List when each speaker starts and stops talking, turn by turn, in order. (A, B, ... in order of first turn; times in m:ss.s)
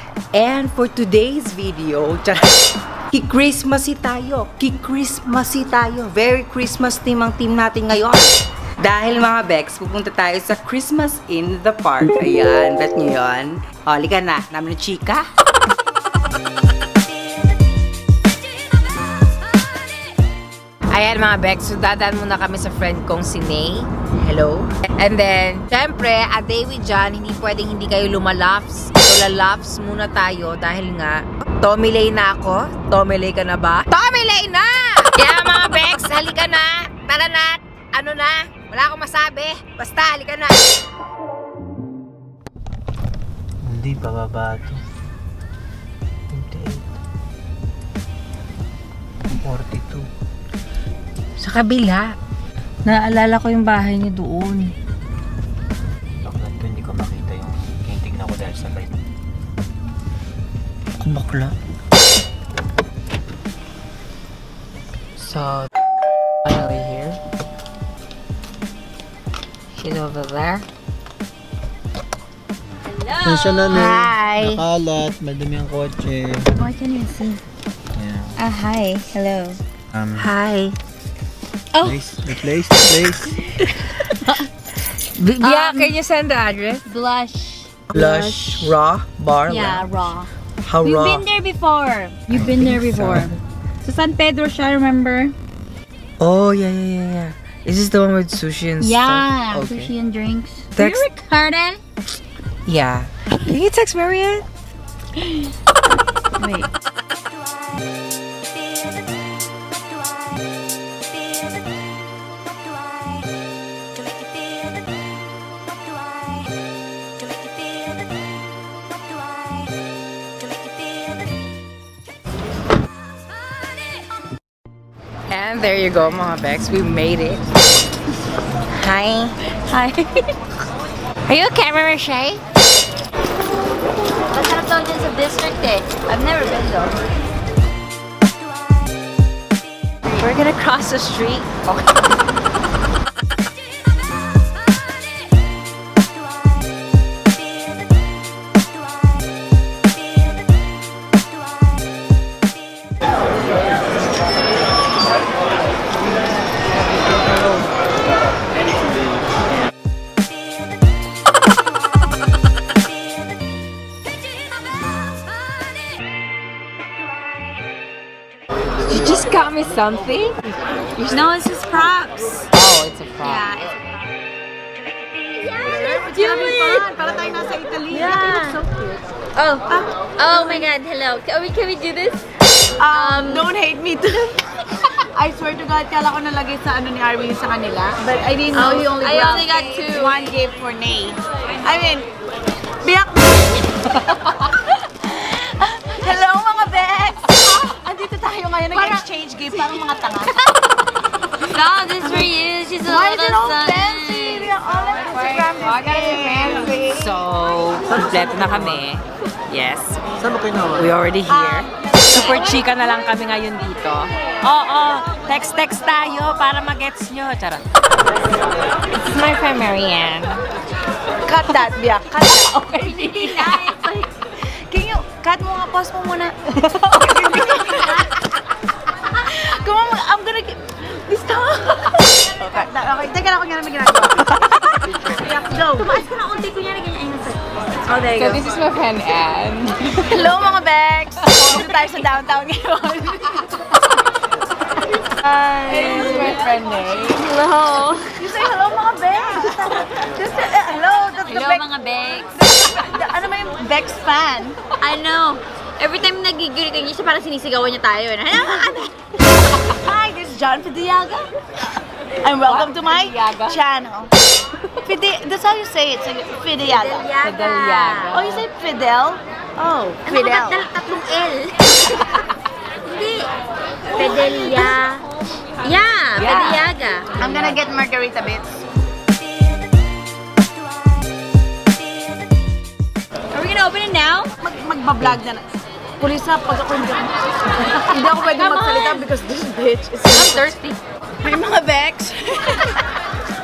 0:00.3-0:02.4 A
0:03.1-0:15.3 A
0:20.9-0:40.6 A
0:43.6-0:44.8 B
0:46.3-0:46.8 B
0:49.5-0:50.0 B
0:51.4-0:52.2 A
0:52.8-0:54.7 A
0:56.2-0:59.0 B
1:01.0-1:01.5 A
1:05.2-1:05.7 A
1:06.5-1:07.2 A
1:09.8-1:10.6 A
1:12.9-1:14.6 C
1:13.3-1:16.5 B
1:13.7-1:14.6 A
1:16.6-1:17.4 C
1:18.0-1:18.4 B
1:18.4-1:19.6 C
1:20.0-1:20.3 B
1:20.2-1:20.8 A
1:21.7-1:22.0 C
1:21.8-1:23.3 B
1:23.0-1:23.5 C
1:25.2-1:26.8 A
1:25.4-1:25.9 C
1:26.9-1:28.7 C
1:27.9-1:29.8 A
1:29.5-1:30.3 C
1:30.7-1:31.2 A
1:30.8-1:33.3 C
1:32.4-1:32.8 D
1:33.8-1:35.3 C
1:36.2-1:39.9 A
1:38.8-1:41.8 C
1:40.8-1:41.1 A
1:42.7-1:44.5 A
1:45.2-1:45.5 C
1:46.4-1:46.7 C
2:05.3-2:07.4 A
2:08.8-2:09.3 A
2:09.7-2:10.4 C
2:11.3-2:12.4 A
2:14.3-2:17.0 C
2:20.1-2:21.7 A
2:48.9-2:50.4 A
2:51.0-2:52.5 C
2:52.5-2:53.4 A
2:53.2-2:53.7 C
2:55.4-2:56.9 C
2:55.6-2:59.0 D
2:57.9-2:58.6 C
2:59.4-3:02.2 C
2:59.7-3:00.7 D
3:02.8-3:04.4 D
3:02.9-3:03.5 C
3:05.1-3:12.1 D
3:08.5-3:10.3 C
3:12.8-3:20.4 D
3:18.7-3:19.0 C
3:21.5-3:26.9 C
3:22.0-3:22.3 D
3:22.8-3:27.2 D
3:26.8-3:30.0 A
3:30.7-3:37.6 A
3:31.3-3:32.5 D
3:32.1-3:32.4 C
3:39.1-3:40.4 A
3:41.2-3:42.8 D
3:42.6-3:44.1 C
3:42.6-3:43.7 A
3:44.7-3:46.4 D
3:47.0-3:48.1 D
3:49.3-3:54.4 D
3:55.3-3:56.0 D
3:55.8-3:58.5 C
3:57.9-3:58.4 D
3:58.1-4:00.0 A
4:00.0-4:03.5 D
4:05.2-4:08.2 C
4:05.7-4:07.2 D
4:08.2-4:11.6 D
4:11.2-4:12.6 C
4:12.8-4:14.6 D
4:14.8-4:18.9 C
4:19.8-4:21.3 D
4:22.2-4:24.1 D
4:22.5-4:23.6 C
4:24.8-4:27.2 D
4:26.7-4:28.4 C
4:27.2-4:28.4 A
4:28.1-4:30.7 D
4:30.0-4:32.0 C
4:32.9-4:33.3 C
4:33.9-4:35.0 C
4:35.6-4:37.1 C
4:36.2-4:37.6 A
4:37.2-4:38.6 D
4:43.3-4:44.3 C
4:44.4-4:45.4 D
4:46.0-4:47.1 D
4:47.8-4:50.5 D
4:48.0-4:49.1 C
4:50.1-4:50.8 C
4:51.2-4:52.6 D